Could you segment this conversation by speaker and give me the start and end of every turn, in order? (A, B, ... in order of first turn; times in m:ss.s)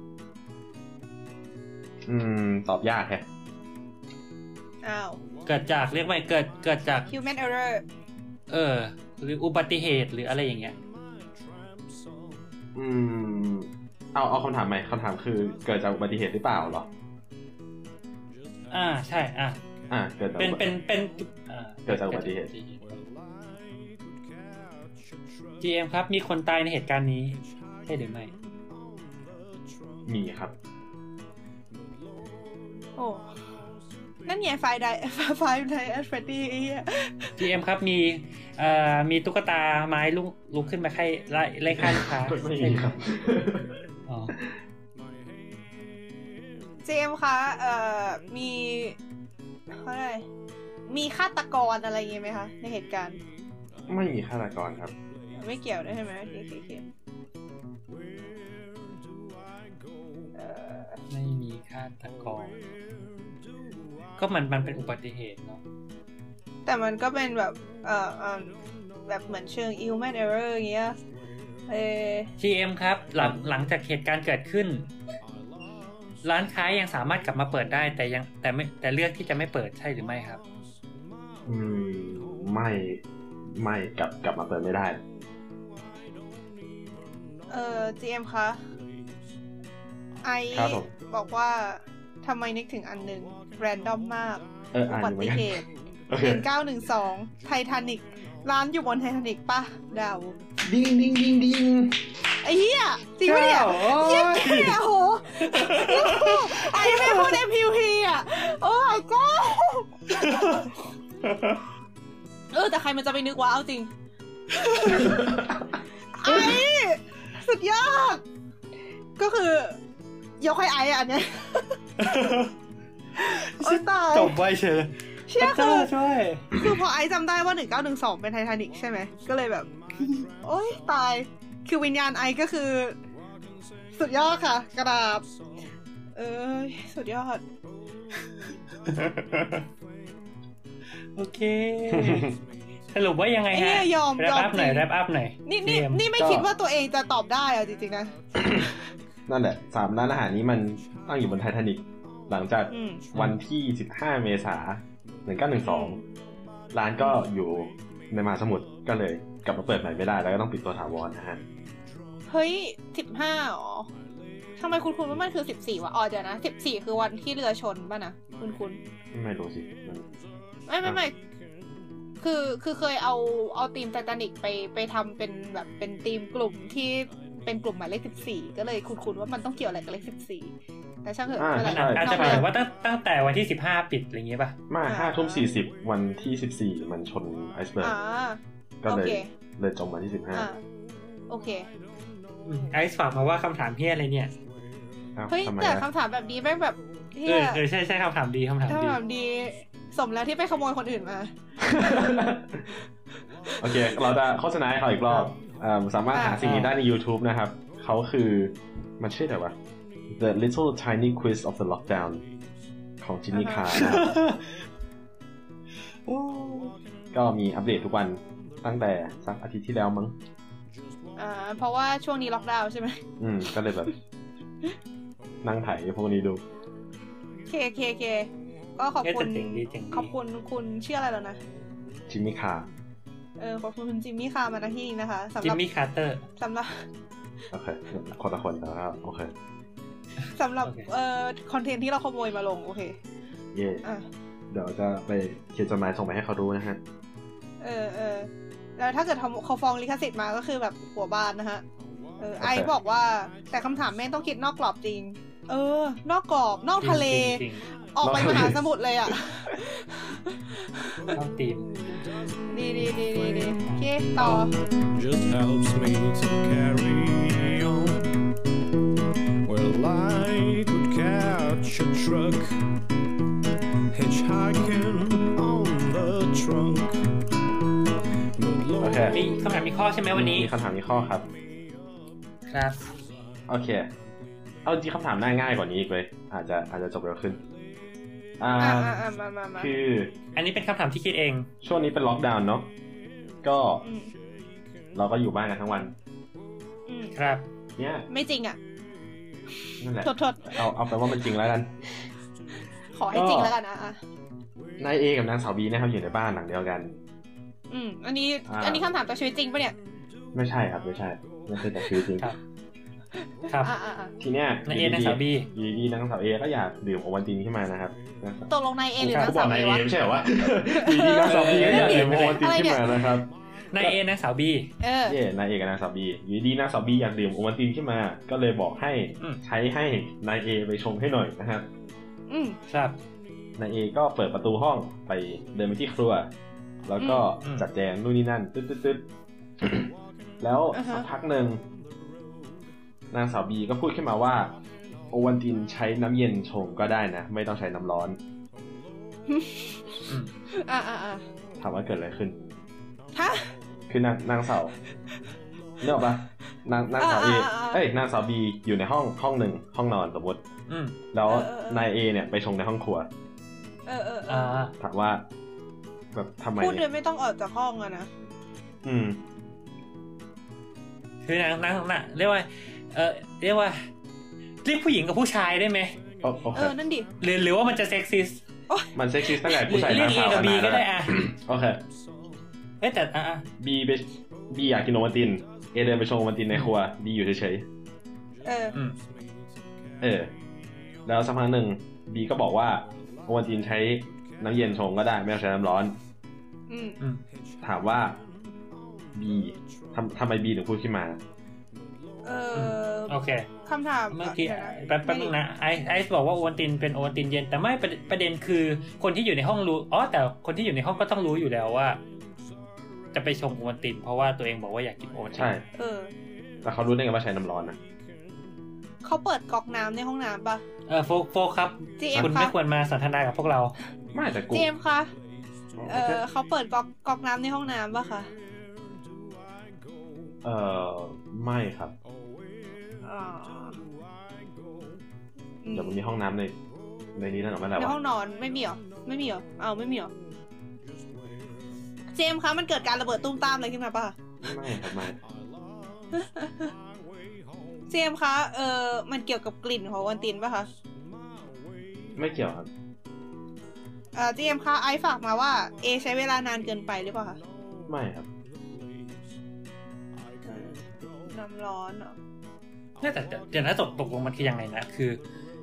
0:02.0-0:03.2 A
0:04.8-0:05.2 B
0:05.4-0:07.1 C
0:07.1-0:07.8 B
0:08.5-0:10.8 C
0:12.7-0:16.9 A
0:18.7-0:19.6 C
0:19.9-0:20.6 A
0:20.4-0:23.0 C
0:21.9-0:22.5 A
0:25.6-0:28.3 C
0:30.0-0:30.5 A
0:33.0-0:33.3 B
0:34.2-0:37.4 B
0:37.4-0:43.0 C
0:41.7-0:43.8 A
0:44.1-0:44.3 C
0:44.3-0:44.6 A
0:46.8-0:49.0 B
0:49.7-0:50.2 B
0:50.9-0:53.2 B
0:53.9-0:54.9 A
0:55.3-0:56.8 B
1:00.4-1:01.0 B
1:01.1-1:02.6 C
1:04.2-1:05.6 C
1:06.6-1:11.0 B
1:11.7-1:12.3 B
1:12.4-1:14.9 C
1:16.2-1:20.4 C
1:21.4-1:25.0 A
1:27.5-1:28.6 B
1:30.2-1:35.6 B
1:30.5-1:30.9 A
1:34.7-1:36.5 A
1:36.2-1:40.4 B
1:40.6-1:42.1 A
1:42.4-1:50.4 B
1:43.2-1:44.8 C
1:45.5-1:47.4 C
1:50.2-1:50.7 C
1:52.5-1:53.9 B
1:54.7-1:55.1 B
1:54.7-1:55.1 C
1:55.0-1:55.6 A
1:56.1-1:58.2 B
1:59.2-1:59.8 B
2:00.4-2:01.8 B
2:02.0-2:02.5 C
2:03.2-2:06.5 C
2:03.6-2:04.3 B
2:05.2-2:05.9 B
2:06.5-2:13.0 B
2:13.9-2:15.2 B
2:16.2-2:17.4 B
2:18.9-2:19.6 C
2:21.2-2:22.3 C
2:21.9-2:22.4 A
2:22.9-2:26.4 C
2:23.5-2:24.9 B
2:25.4-2:28.7 B
2:29.3-2:36.0 A
2:32.7-2:33.1 B
2:35.6-2:36.0 B
2:36.7-2:41.4 A
2:37.0-2:37.2 B
2:42.3-2:43.9 B
2:44.6-2:48.8 B
2:49.1-2:50.1 A
2:50.7-2:51.1 B
2:52.2-3:00.5 B
3:01.0-3:02.5 B
3:01.4-3:02.4 A
3:01.6-3:04.6 C
3:04.7-3:08.0 A
3:04.8-3:05.4 B
3:07.8-3:09.3 B
3:08.8-3:10.5 A
3:10.3-3:10.6 B
3:11.3-3:11.7 B
3:12.4-3:14.3 C
3:15.2-3:15.9 A
3:15.3-3:17.6 B
3:17.2-3:19.0 C
3:18.7-3:21.3 B
3:21.6-3:22.7 A
3:23.4-3:24.0 B
3:23.6-3:29.6 A
3:26.1-3:26.4 B
3:26.4-3:26.8 C
3:30.1-3:32.2 A
3:33.0-3:34.2 A
3:33.3-3:33.8 B
3:33.7-3:34.4 C
3:36.1-3:36.7 C
3:37.1-3:40.1 A
3:41.2-3:43.0 B
3:43.2-3:43.9 A
3:45.4-3:46.4 A
3:47.5-3:51.4 B
3:49.0-3:50.1 C
3:52.1-3:52.7 A
3:53.4-3:55.6 B
3:55.4-3:56.2 C
3:56.4-3:56.8 B
3:57.5-3:59.3 A
4:00.3-4:03.0 B
4:03.5-4:03.8 A
4:04.5-4:06.8 A
4:07.6-4:11.6 B
4:12.2-4:21.2 B
4:12.4-4:12.7 A
4:16.8-4:17.6 C
4:18.0-4:19.1 A
4:21.1-4:21.7 C
4:22.5-4:24.5 B
4:23.2-4:23.5 D
4:23.6-4:24.4 C
4:24.8-4:28.1 D
4:29.4-4:32.6 D
4:33.9-4:37.1 D
4:38.3-4:39.4 D
4:38.8-4:39.2 A
4:39.1-4:40.5 C
4:40.0-4:41.3 A
4:42.5-4:42.9 C
4:43.5-4:43.9 A
4:44.6-4:47.4 A
4:48.4-4:50.2 A
4:48.6-4:49.7 B
4:50.4-4:51.5 C
4:51.6-4:52.7 A
4:53.4-4:53.8 A
4:53.8-4:54.1 B
4:54.9-4:55.9 A
4:56.9-4:57.1 B
4:57.1-4:57.5 C
4:57.8-4:58.0 A
4:58.1-4:58.6 B
4:59.8-5:01.9 A
5:00.0-5:00.6 B
5:02.9-5:04.0 B
5:03.1-5:03.6 A
5:04.8-5:07.0 A
5:07.7-5:09.8 B
5:08.5-5:08.9 A
5:10.3-5:12.3 A
5:13.4-5:13.7 C
5:13.6-5:14.1 B
5:14.2-5:18.5 A
5:14.6-5:15.5 C
5:18.5-5:19.9 B
5:19.0-5:19.7 C
5:19.0-5:24.0 A
5:20.7-5:23.0 B
5:21.2-5:22.4 C
5:23.7-5:24.7 C
5:24.8-5:25.2 B
5:25.1-5:31.7 A
5:32.3-5:32.6 B
5:32.7-5:33.0 C
5:33.6-5:36.3 A
5:36.8-5:39.1 A
5:37.0-5:37.2 B
5:39.6-5:41.6 A
5:40.7-5:41.1 B
5:43.1-5:44.5 A
5:45.1-5:48.2 A
5:49.3-5:51.2 B
5:51.6-5:52.4 A
5:53.1-5:53.5 B
5:53.9-5:54.7 A
5:55.8-6:00.4 A
5:57.0-5:57.8 B
6:00.7-6:01.0 C
6:01.1-6:03.1 A
6:01.2-6:01.9 B
6:03.9-6:04.6 B
6:04.3-6:04.7 C
6:04.8-6:05.2 A
6:06.1-6:06.8 A
6:06.6-6:08.1 B
6:08.8-6:09.2 A
6:11.2-6:13.8 C
6:14.6-6:16.0 C
6:16.2-6:16.7 A
6:16.5-6:17.1 B
6:17.2-6:18.4 C
6:18.7-6:19.7 B
6:18.9-6:21.8 A
6:19.6-6:21.2 C
6:22.8-6:23.4 C
6:23.6-6:27.6 A
6:28.4-6:28.8 B
6:30.0-6:30.3 A
6:31.0-6:36.0 A
6:36.7-6:37.0 B
6:37.6-6:38.2 A
6:39.1-6:41.2 A
6:42.2-6:45.3 B
6:42.5-6:43.5 C
6:44.1-6:52.0 C
6:53.1-6:55.5 C
6:55.3-6:55.6 A
6:55.8-6:56.1 B
6:56.6-6:57.8 A
6:59.0-7:00.6 B
7:00.9-7:03.7 C
7:02.0-7:02.5 B
7:04.1-7:04.7 A
7:04.5-7:05.1 B
7:05.7-7:06.2 A
7:05.9-7:08.3 B
7:10.4-7:11.9 A
7:13.0-7:13.8 B
7:15.6-7:16.0 B
7:15.7-7:16.6 A
7:17.1-7:18.0 A
7:17.8-7:20.1 B
7:22.1-7:24.2 B
7:24.4-7:25.2 A
7:26.1-7:26.7 B
7:27.9-7:30.7 B
7:32.1-7:32.7 A
7:34.1-7:37.4 B
7:37.9-7:38.3 A
7:40.4-7:42.2 B
7:43.0-7:45.2 C